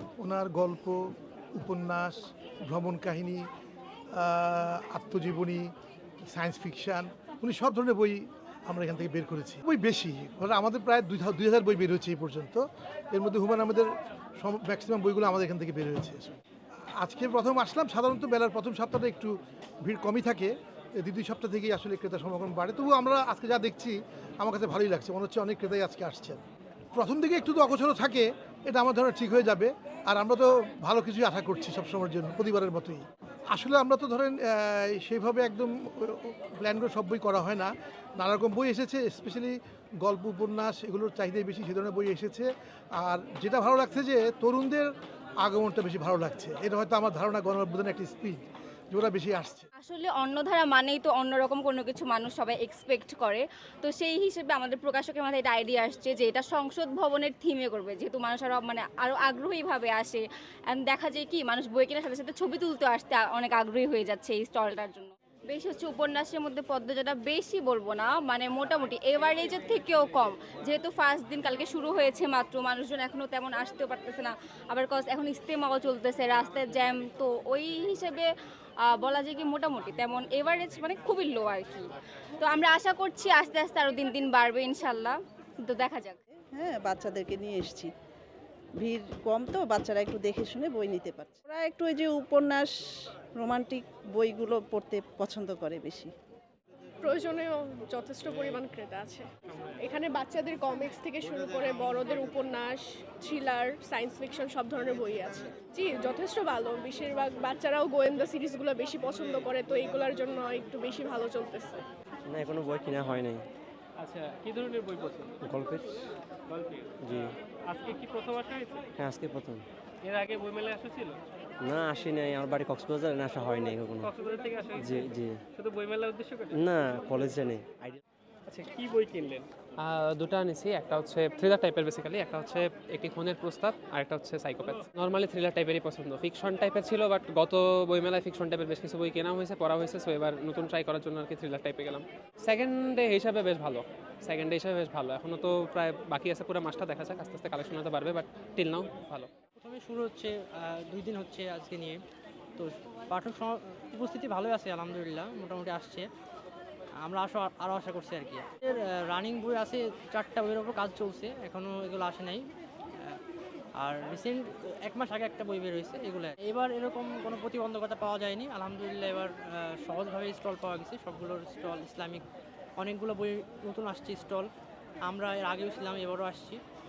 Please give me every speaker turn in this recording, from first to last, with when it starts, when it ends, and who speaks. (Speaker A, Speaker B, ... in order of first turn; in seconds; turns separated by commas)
Speaker A: 0.2-1.0, Speaker A: 1.5-3.4, Speaker A: 4.1-5.7, Speaker A: 6.3-16.4, Speaker A: 17.0-26.4, Speaker A: 26.9-44.9, Speaker A: 45.4-48.4, Speaker A: 48.9-49.7, Speaker B: 49.8-78.3, Speaker B: 78.8-86.2, Speaker C: 86.5-87.9, Speaker C: 88.8-96.1, Speaker D: 97.0-99.2, Speaker D: 99.8-111.8, Speaker E: 112.2-113.4, Speaker F: 114.0-115.3, Speaker E: 115.4-116.0, Speaker F: 116.5-116.9, Speaker E: 117.0-117.3, Speaker F: 117.7-118.8, Speaker E: 119.0-119.6, Speaker F: 120.0-121.2, Speaker E: 121.6-124.1, Speaker F: 124.0-126.5, Speaker E: 124.8-125.4, Speaker E: 126.5-128.0, Speaker F: 128.5-129.5, Speaker G: 129.8-149.3, Speaker H: 149.7-150.3, Speaker H: 150.9-151.9, Speaker H: 152.6-156.0, Speaker H: 157.0-158.4, Speaker H: 159.1-162.4, Speaker H: 163.8-169.3, Speaker H: 169.8-172.2, Speaker H: 172.8-174.4, Speaker H: 175.1-176.5